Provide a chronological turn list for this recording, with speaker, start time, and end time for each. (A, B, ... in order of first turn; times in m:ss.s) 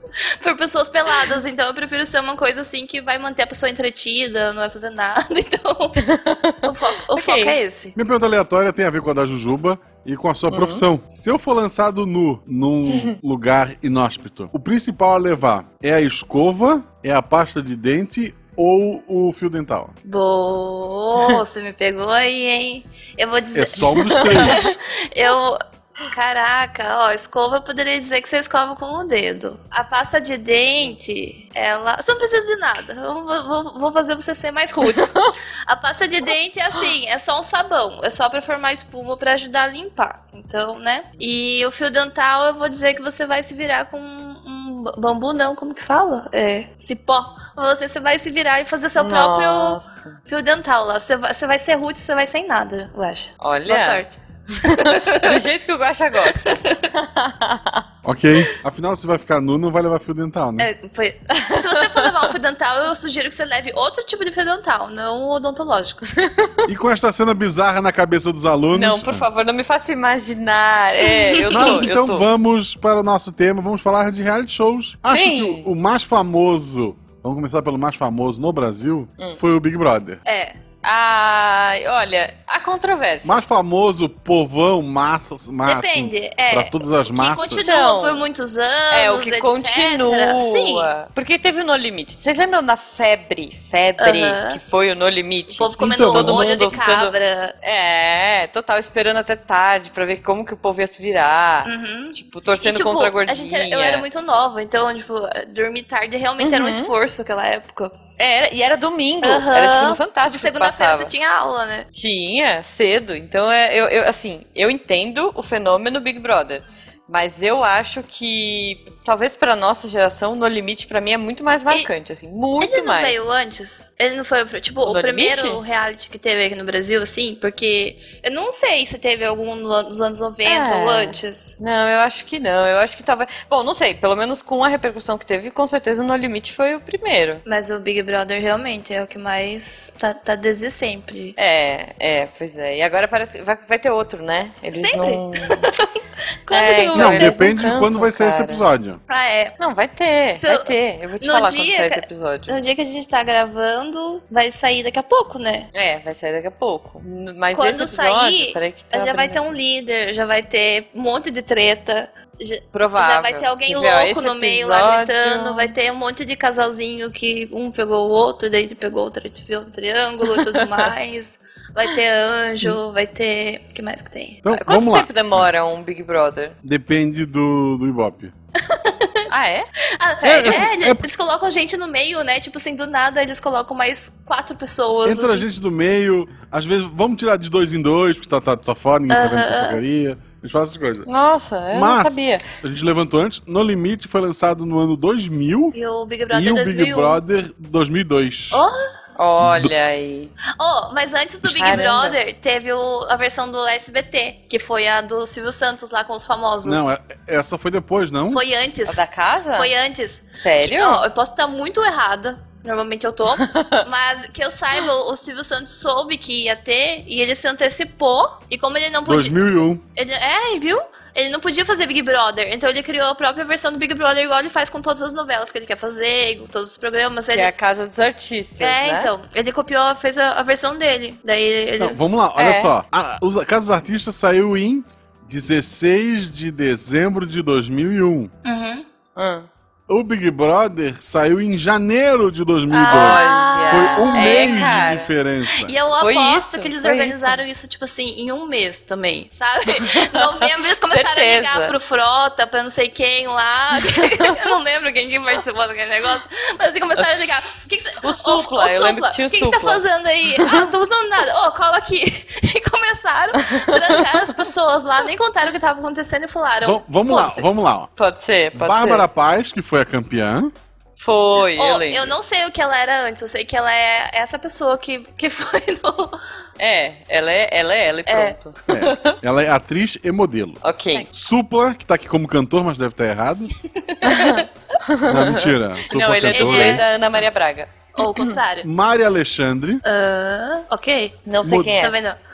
0:00.4-0:06.0 A
0:06.0-0:07.6 B
0:06.6-0:07.9 A
0:07.9-0:19.9 C
0:10.5-0:10.8 B
0:20.0-0:55.4 A
0:23.5-0:24.7 C
0:24.0-0:24.7 B
0:34.8-0:35.3 B
0:49.0-0:50.2 B
0:53.4-0:57.8 B
0:56.2-0:56.8 A
0:58.0-1:00.7 C
1:00.6-1:06.1 A
1:01.4-1:02.3 B
1:06.2-1:06.7 B
1:06.7-1:09.3 C
1:08.7-1:12.3 B
1:11.0-1:11.8 A
1:11.5-1:20.2 C
1:15.1-1:15.7 B
1:20.2-1:20.6 A
1:20.8-1:23.6 B
1:23.2-1:27.6 C
1:25.6-1:30.9 A
1:27.6-1:28.2 B
1:28.9-1:44.0 B
1:34.0-1:34.6 A
1:35.6-1:37.6 A
1:35.8-1:36.5 C
1:41.6-1:48.0 A
1:46.4-1:46.9 B
1:48.2-1:51.1 B
1:49.2-1:51.9 A
1:51.9-2:03.3 B
2:02.6-2:11.5 A
2:04.8-2:05.6 B
2:10.4-2:17.4 B
2:17.4-2:21.4 A
2:21.4-2:25.7 B
2:24.7-2:25.9 A
2:26.4-2:27.4 A
2:26.5-2:28.6 B
2:26.9-2:29.0 C
2:29.1-2:29.6 A
2:29.6-2:32.5 B
2:30.4-2:35.7 A
2:35.7-2:39.4 B
2:37.5-2:54.4 A
2:42.7-2:45.7 B
2:50.2-2:50.9 B
2:54.4-2:55.5 C
2:54.5-2:56.6 B
2:56.6-2:58.3 C
2:58.6-2:59.3 A
2:59.3-3:00.6 B
2:59.9-3:05.5 A
3:00.2-3:01.0 C
3:05.0-3:11.0 C
3:09.1-3:09.8 A
3:11.0-3:12.4 B
3:11.7-3:15.8 C
3:15.7-3:17.2 A
3:16.3-3:18.6 C
3:18.5-3:18.8 A
3:19.2-3:20.3 B
3:19.4-3:19.7 C
3:20.6-3:26.9 A
3:21.4-3:21.8 C
3:21.5-3:22.2 B
3:26.6-3:28.4 C
3:28.3-3:47.5 A
3:28.8-3:29.7 B
3:30.3-3:31.0 B
3:33.4-3:33.8 B
3:39.0-3:39.8 C
3:47.3-3:49.1 B
3:48.6-3:52.0 A
3:51.8-3:58.3 C
3:52.4-3:52.7 B
3:58.4-3:58.8 A
3:59.2-3:59.5 B
3:59.9-4:05.7 C
4:02.7-4:04.9 A
4:02.9-4:05.1 B
4:05.6-4:27.5 A
4:06.0-4:07.4 B
4:09.8-4:11.8 B
4:13.8-4:14.3 B
4:17.0-4:17.4 B
4:18.0-4:20.7 B
4:23.4-4:24.3 B
4:26.6-4:27.9 C
4:28.0-4:29.1 B
4:28.5-4:30.5 C
4:31.0-4:32.1 B
4:31.5-4:36.2 A
4:36.6-4:39.2 B
4:38.1-4:38.4 A
4:38.7-4:40.6 C
4:40.6-4:41.1 B
4:41.1-4:43.5 C
4:43.8-4:44.5 A
4:44.0-4:48.4 B
4:45.0-4:46.8 C
4:46.3-4:46.8 A
4:48.0-4:48.7 A
4:48.6-4:49.8 C
4:49.8-4:52.2 A
4:51.2-4:52.0 B
4:51.4-4:51.8 C